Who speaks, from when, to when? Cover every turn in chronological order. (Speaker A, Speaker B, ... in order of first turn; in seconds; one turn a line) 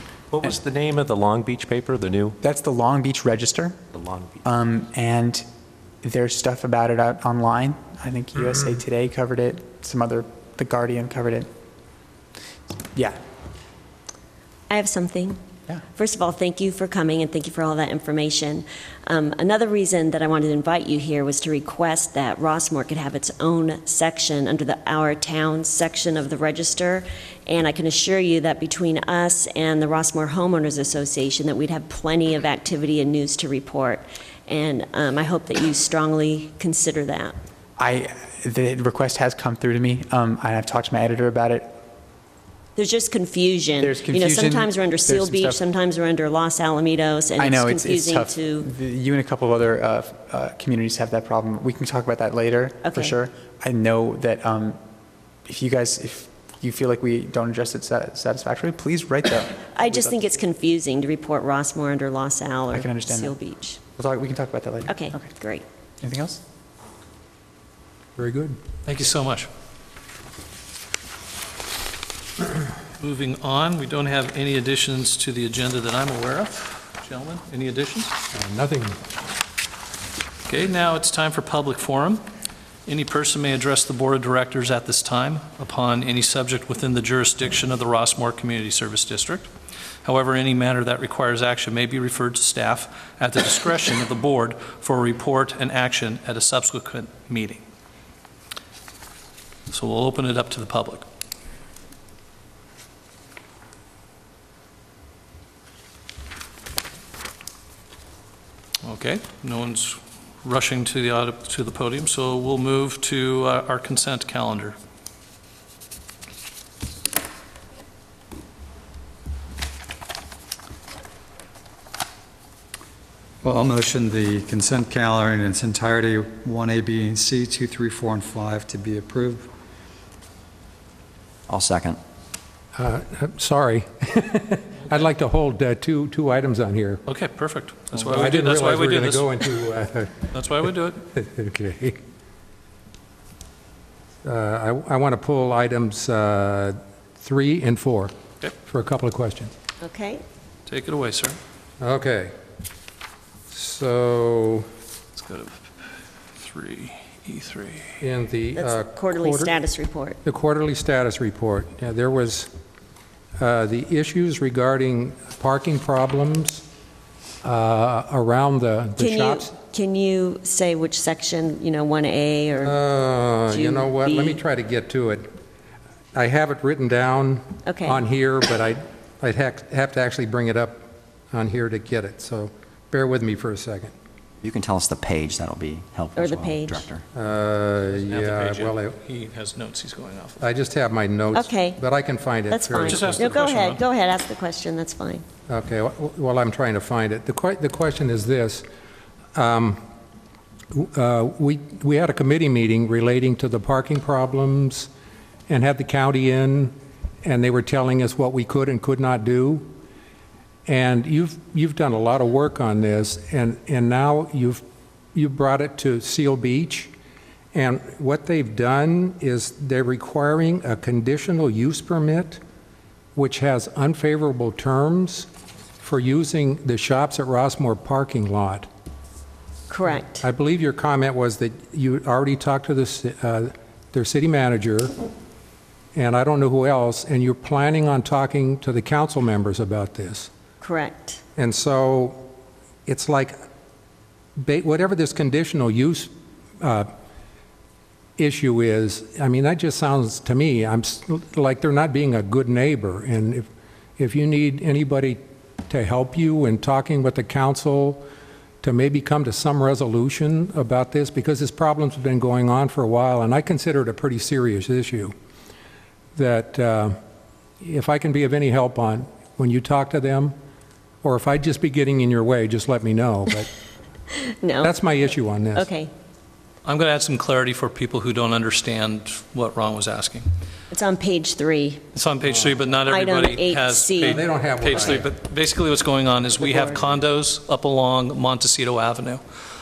Speaker A: 0.3-2.4
Speaker B: 2.4-3.8
Speaker A: 4.0-4.4
Speaker B: 4.4-5.5
Speaker B: 6.0-11.5
Speaker B: 12.9-13.2
Speaker C: 14.7-15.4
Speaker C: 15.9-37.4
Speaker B: 37.8-41.7
Speaker C: 42.8-48.7
Speaker B: 43.8-45.6
Speaker B: 47.4-54.8
Speaker C: 52.8-53.2
Speaker B: 55.5-60.2
Speaker C: 59.7-63.8
Speaker B: 62.7-63.3
Speaker B: 64.0-65.3
Speaker C: 64.9-65.7
Speaker B: 66.0-66.4
Speaker D: 68.2-68.6
Speaker E: 68.9-69.5
Speaker E: 73.0-78.2
Speaker D: 78.3-79.0
Speaker E: 80.5-82.2
Speaker E: 82.9-89.5
Speaker E: 90.0-97.6
Speaker E: 99.7-101.0
Speaker E: 108.8-114.8
Speaker F: 123.4-129.5
Speaker G: 131.5-132.0
Speaker D: 132.8-137.0
Speaker E: 137.1-139.3
Speaker D: 137.9-140.3
Speaker E: 140.3-141.0
Speaker D: 141.0-142.0
Speaker D: 144.2-149.5
Speaker C: 149.8-150.2
Speaker E: 150.7-151.4
Speaker D: 151.8-152.3
Speaker D: 153.5-154.7
Speaker E: 155.2-155.7
Speaker E: 156.4-157.9
Speaker D: 158.0-159.6
Speaker C: 158.6-160.2
Speaker D: 160.2-162.5
Speaker D: 163.4-166.7
Speaker D: 167.4-169.5
Speaker C: 169.0-172.8
Speaker D: 172.6-175.3
Speaker C: 173.5-174.4
Speaker D: 176.1-183.9
Speaker C: 177.7-178.0
Speaker G: 184.4-187.0
Speaker C: 186.2-186.8
Speaker D: 187.1-189.0
Speaker E: 187.9-190.4
Speaker D: 190.4-193.3
Speaker C: 191.3-191.8
Speaker C: 192.5-195.2
Speaker E: 192.9-193.8
Speaker D: 195.5-198.7
Speaker D: 199.3-199.8
Speaker D: 200.7-204.9
Speaker D: 205.5-209.7
Speaker D: 210.7-214.6
Speaker D: 215.2-216.9
Speaker D: 217.5-222.4
Speaker D: 223.2-225.3
Speaker D: 225.8-228.7
Speaker C: 229.7-230.2
Speaker D: 230.0-234.9
Speaker D: 235.9-240.3
Speaker C: 240.6-241.2
Speaker D: 241.4-242.2
Speaker D: 242.9-243.3
Speaker D: 244.4-246.1
Speaker D: 246.6-246.9
Speaker D: 248.2-253.5
Speaker D: 254.0-258.0
Speaker D: 258.6-265.1
Speaker D: 266.1-267.0
Speaker D: 267.6-270.3
Speaker D: 271.0-273.5
Speaker C: 274.4-274.8
Speaker D: 274.6-275.7
Speaker C: 275.6-275.9
Speaker E: 276.6-280.3
Speaker C: 280.7-281.8
Speaker E: 281.9-289.2
Speaker D: 282.3-282.7
Speaker C: 282.9-284.2
Speaker D: 284.0-285.1
Speaker C: 286.4-286.8